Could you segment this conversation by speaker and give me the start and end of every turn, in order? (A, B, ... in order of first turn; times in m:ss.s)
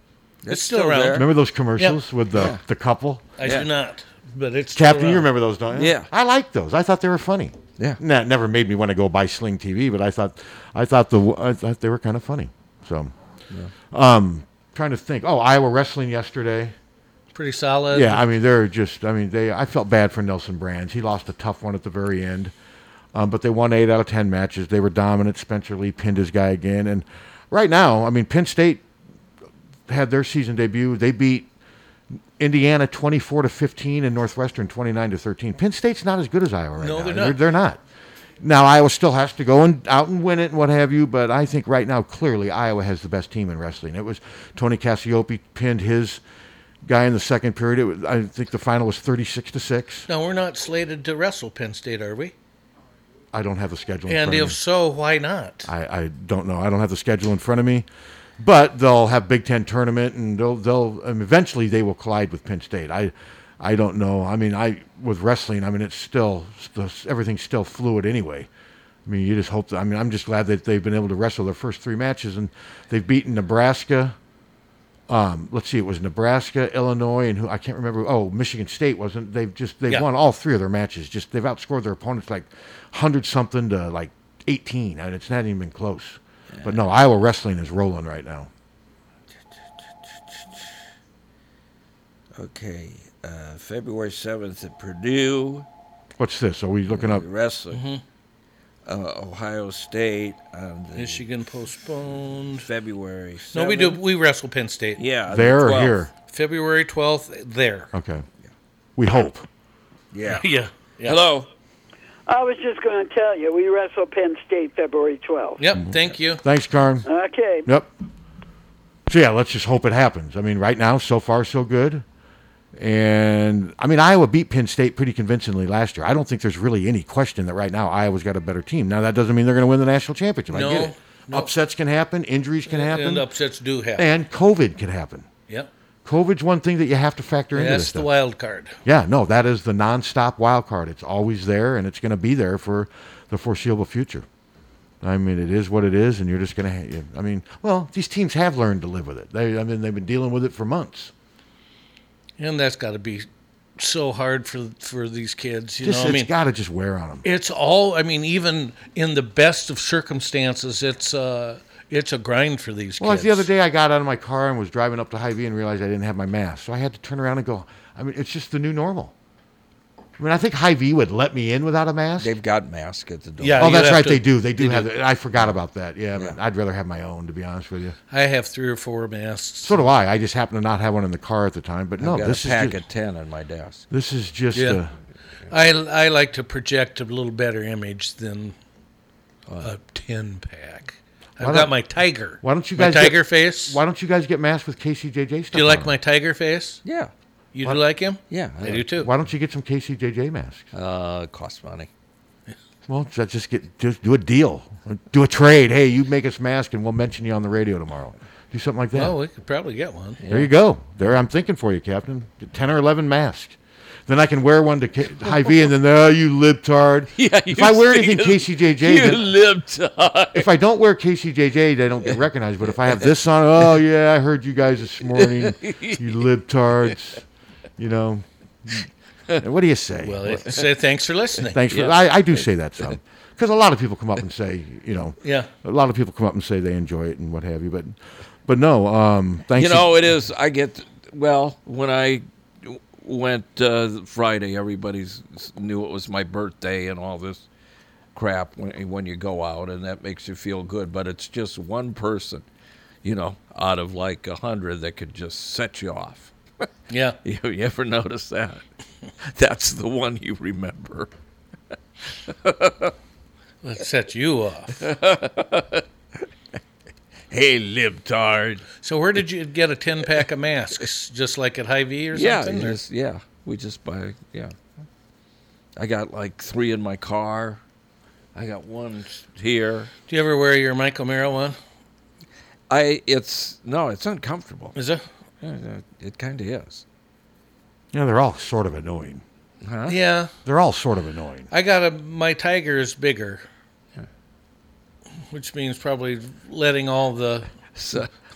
0:00.4-0:01.3 A
0:00.5-0:01.3 B
0:01.1-0:03.4 C
0:02.4-0:02.6 A
0:03.4-0:05.3 B
0:04.8-0:13.1 C
0:05.7-0:06.1 A
0:13.9-0:16.7 C
0:17.3-0:18.2 B
0:17.9-0:22.5 C
0:23.1-0:28.8 C
0:29.9-0:31.5 C
0:32.4-0:37.8 C
0:36.8-0:37.4 B
0:38.4-0:46.2 C
0:46.8-0:50.1 C
0:50.1-0:52.3 B
0:53.3-0:54.6 C
0:54.1-0:55.7 B
0:55.6-0:57.9 C
0:58.4-1:08.5 C
1:09.1-1:14.2 C
1:15.1-1:28.5 C
1:26.5-1:26.8 A
1:29.8-1:30.7 A
1:32.4-1:35.7 A
1:36.2-1:37.2 C
1:36.9-1:37.8 A
1:37.7-1:38.0 B
1:38.9-1:41.2 A
1:41.0-1:42.7 B
1:42.6-1:44.0 A
1:43.5-1:45.0 B
1:45.0-1:46.0 A
1:45.3-1:46.1 C
1:46.3-1:47.9 B
1:47.9-1:48.2 C
1:49.0-1:49.5 C
1:50.1-1:50.5 A
1:50.3-1:51.2 B
1:51.1-1:51.5 A
1:52.3-1:55.6 D
1:55.6-1:56.4 B
1:56.4-1:57.1 C
1:57.0-1:57.7 D
1:59.1-2:02.0 C
2:02.8-2:13.3 C
2:10.5-2:11.5 B
2:12.7-2:14.1 B
2:14.0-2:15.3 C
2:16.0-2:18.1 C
2:17.6-2:18.8 B
2:18.8-2:24.3 C
2:25.0-2:31.1 C
2:32.4-2:33.3 B
2:33.8-2:36.3 B
2:35.8-2:37.2 C
2:37.2-2:43.5 B
2:43.0-2:49.1 C
2:50.2-2:52.3 C
2:52.2-2:53.7 A
2:53.4-2:54.8 B
2:53.6-2:58.0 C
2:58.1-2:59.8 B
2:59.6-3:02.8 C
3:02.0-3:03.8 A
3:03.9-3:04.9 C
3:05.5-3:08.6 B
3:09.6-3:13.8 B
3:11.4-3:11.7 C
3:12.4-3:15.9 C
3:15.5-3:16.8 B
3:16.8-3:17.1 A
3:17.5-3:19.1 B
3:18.3-3:18.9 A
3:18.9-3:20.7 C
3:20.7-3:21.9 A
3:22.9-3:29.1 C
3:29.0-3:30.2 B
3:30.2-3:30.5 A
3:30.3-3:39.3 C
3:37.2-3:40.5 A
3:40.3-3:47.2 C
3:45.2-3:46.0 A
3:47.8-3:48.2 C
3:49.4-3:50.2 C
3:50.0-3:51.6 B
3:51.5-4:00.0 C
3:51.7-3:52.0 A
3:55.2-3:55.5 B
3:59.5-4:07.5 A
4:08.2-4:12.4 A
4:13.0-4:16.3 A
4:16.9-4:17.2 B
4:17.2-4:18.6 A
4:19.3-4:21.1 A
4:22.3-4:22.9 A
4:23.6-4:24.8 B
4:24.8-4:25.8 A
4:27.3-4:28.7 A
4:28.8-4:32.8 B
4:32.1-4:34.6 A
4:35.8-4:37.6 A
4:38.4-4:39.9 A
4:40.1-4:41.6 B
4:42.7-4:44.8 A
4:44.8-4:45.0 B
4:45.4-4:46.8 A
4:47.9-4:49.2 C
4:49.6-4:50.0 A
4:49.9-4:50.3 B
4:50.4-4:51.5 C
4:51.5-4:53.4 B
4:55.3-4:57.5 B
4:57.8-4:58.1 A